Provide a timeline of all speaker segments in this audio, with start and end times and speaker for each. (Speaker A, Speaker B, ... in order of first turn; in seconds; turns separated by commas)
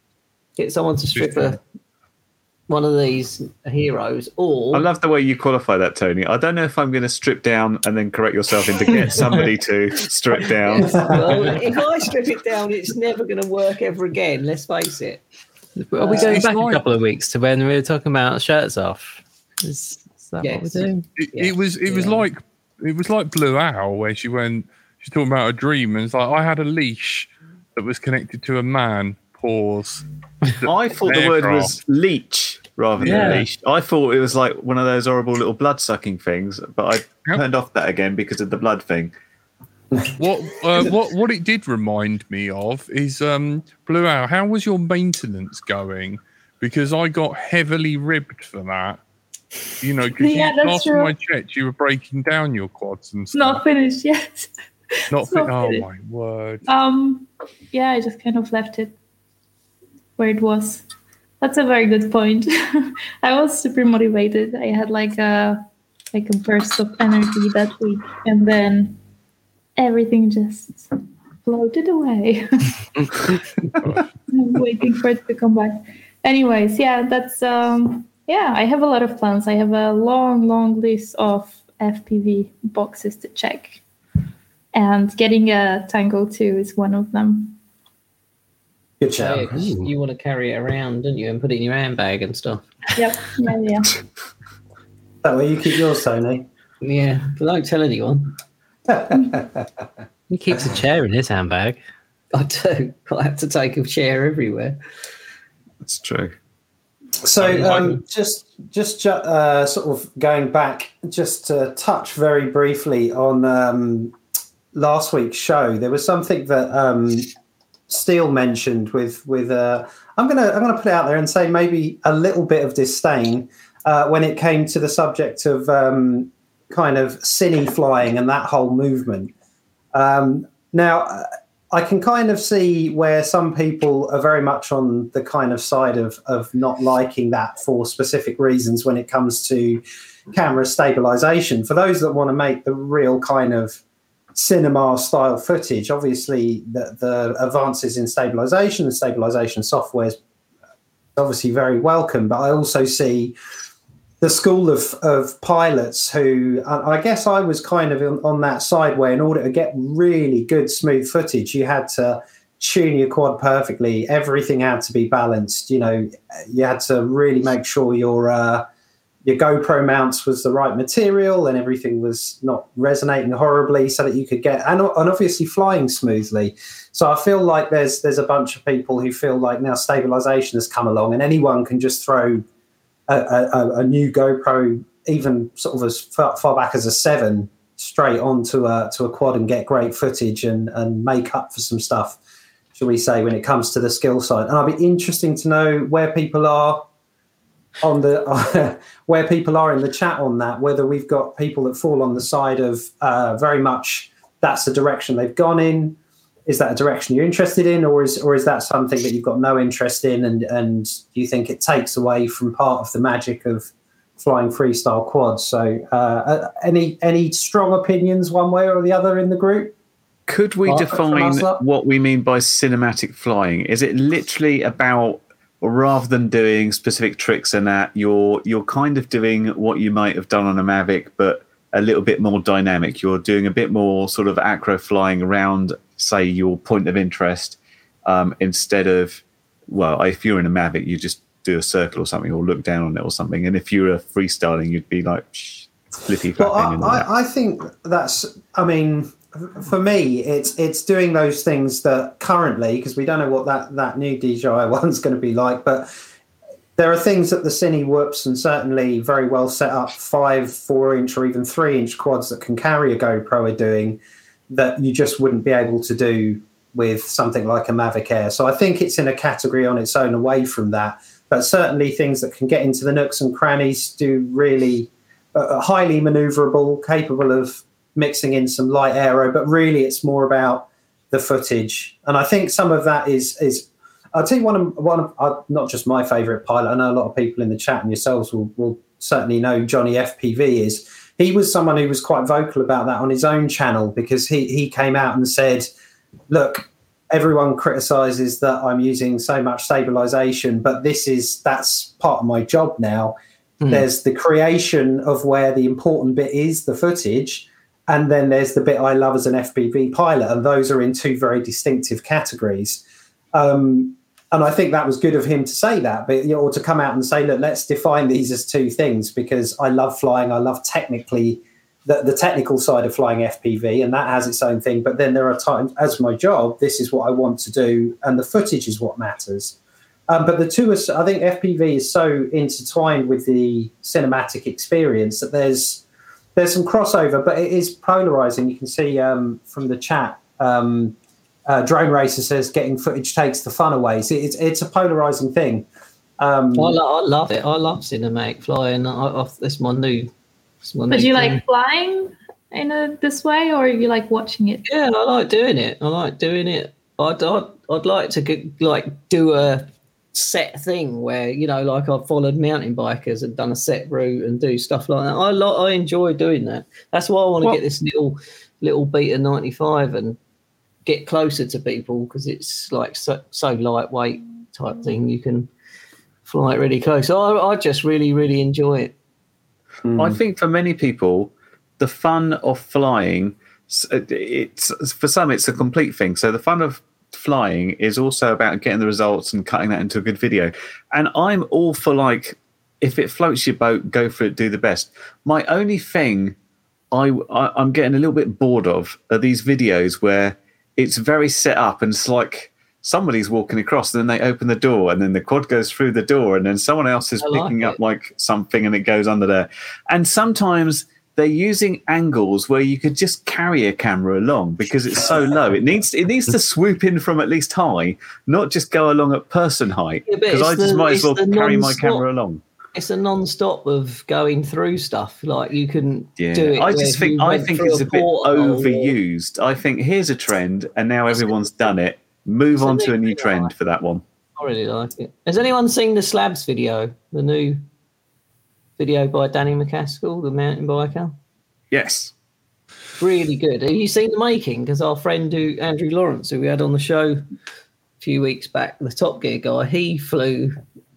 Speaker A: 0.6-1.6, Speaker B: 1.1-1.6, Speaker A: 2.7-4.8, Speaker C: 4.7-11.2, Speaker A: 10.6-15.2, Speaker D: 15.8-21.0, Speaker A: 16.0-16.4, Speaker B: 16.2-16.8, Speaker A: 20.4-22.2, Speaker B: 21.2-30.0, Speaker B: 30.6-31.7, Speaker C: 30.6-39.1, Speaker B: 33.0-33.5, Speaker D: 33.0-33.4, Speaker B: 40.1-49.0, Speaker B: 49.8-53.6, Speaker E: 50.2-51.1, Speaker E: 53.3-54.5, Speaker E: 55.1-55.9, Speaker B: 55.1-56.6, Speaker E: 56.7-58.9, Speaker E: 60.2-60.8, Speaker E: 61.4-65.6, Speaker E: 66.1-69.0, Speaker E: 69.8-73.3, Speaker B: 73.8-74.1, Speaker E: 74.3-83.8, Speaker E: 84.7-87.6, Speaker F: 89.0-89.7, Speaker A: 89.2-92.7, Speaker E: 93.0-93.9, Speaker F: 95.2-96.5, Speaker A: 96.8-98.4, Speaker F: 98.9-99.7, Speaker D: 100.3-101.8, Speaker A: 102.3-104.8, Speaker C: 105.8-106.3, Speaker F: 107.2-114.1, Speaker B: 107.4-107.9, Speaker A: 107.6-107.9, Speaker F: 114.7-117.3, Speaker F: 117.9-129.3, Speaker F: 129.9-143.8, Speaker F: 144.3-150.2, Speaker F: 151.1-153.3, Speaker F: 154.2-168.7, Speaker F: 169.2-182.4, Speaker F: 183.1-192.2, Speaker F: 192.7-196.9, Speaker F: 197.8-219.7, Speaker C: 220.3-247.0, Speaker F: 220.7-221.6, Speaker F: 246.4-255.9, Speaker F: 256.8-295.7, Speaker F: 296.3-303.1, Speaker F: 303.7-312.8, Speaker F: 313.3-329.6, Speaker F: 330.1-335.8, Speaker F: 336.3-340.9, Speaker F: 341.5-345.7, Speaker F: 346.2-346.7, Speaker A: 346.5-350.1, Speaker A: 350.6-351.4, Speaker E: 350.9-354.6, Speaker A: 354.6-370.2, Speaker A: 370.9-375.5, Speaker A: 376.2-378.9, Speaker F: 379.8-380.2, Speaker C: 379.9-396.4, Speaker C: 396.9-422.4, Speaker A: 407.2-407.8, Speaker A: 420.1-422.0, Speaker A: 422.7-428.9, Speaker C: 426.2-434.0, Speaker A: 431.1-431.6, Speaker A: 432.5-433.5, Speaker A: 434.4-437.6, Speaker A: 438.8-441.2, Speaker C: 441.7-442.1, Speaker A: 443.0-447.2, Speaker A: 448.0-450.6